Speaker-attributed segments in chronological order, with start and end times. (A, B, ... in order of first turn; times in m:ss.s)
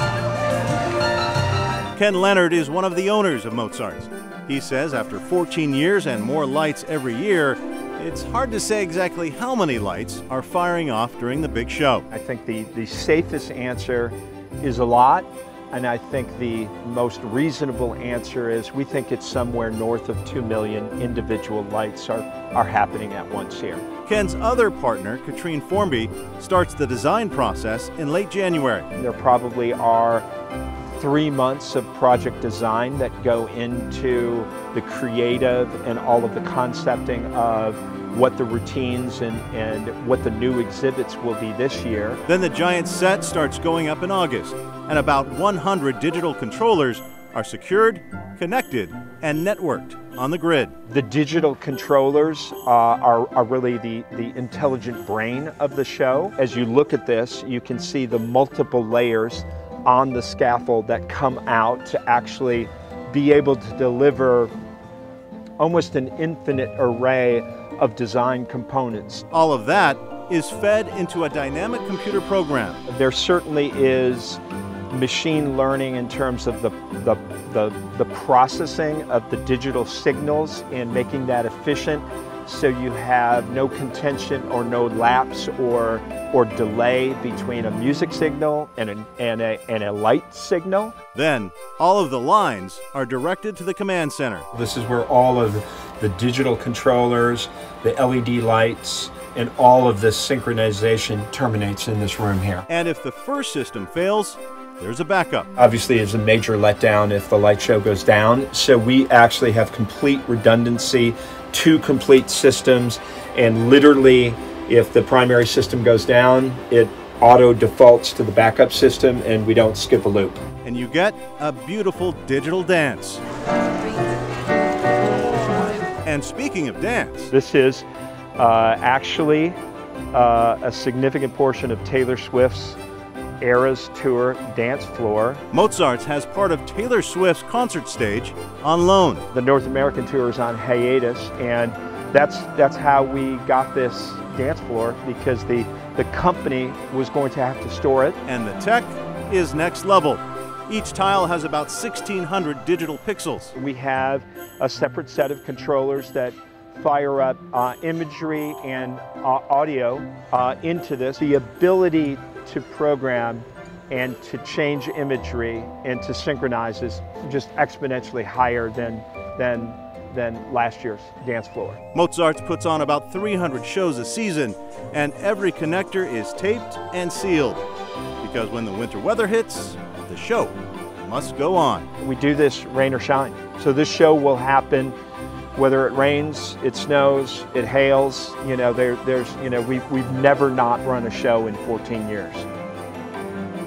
0:01.9-0:12.1 A
0:12.1-0:23.8 B
0:24.0-0:28.9 A
0:29.0-0:30.2 B
0:30.9-0:42.2 B
0:42.2-0:50.7 A
0:50.9-1:04.5 B
1:05.6-1:09.3 B
1:09.3-1:12.8 A
1:12.9-1:30.9 B
1:31.1-1:34.5 A
1:34.5-1:42.6 B
1:42.7-1:45.5 A
1:45.6-2:00.4 B
2:00.6-2:03.2 A
2:06.0-2:07.3 A
2:07.3-2:07.9 B
2:08.4-2:09.6 B
2:10.1-2:12.8 B
2:13.4-2:15.4 B
2:15.5-2:19.3 A
2:19.3-2:28.2 B
2:28.2-2:33.5 A
2:33.5-2:51.8 B
2:51.9-2:57.6 A
2:58.2-3:01.9 A
3:02.0-3:04.9 B
3:05.6-3:12.5 B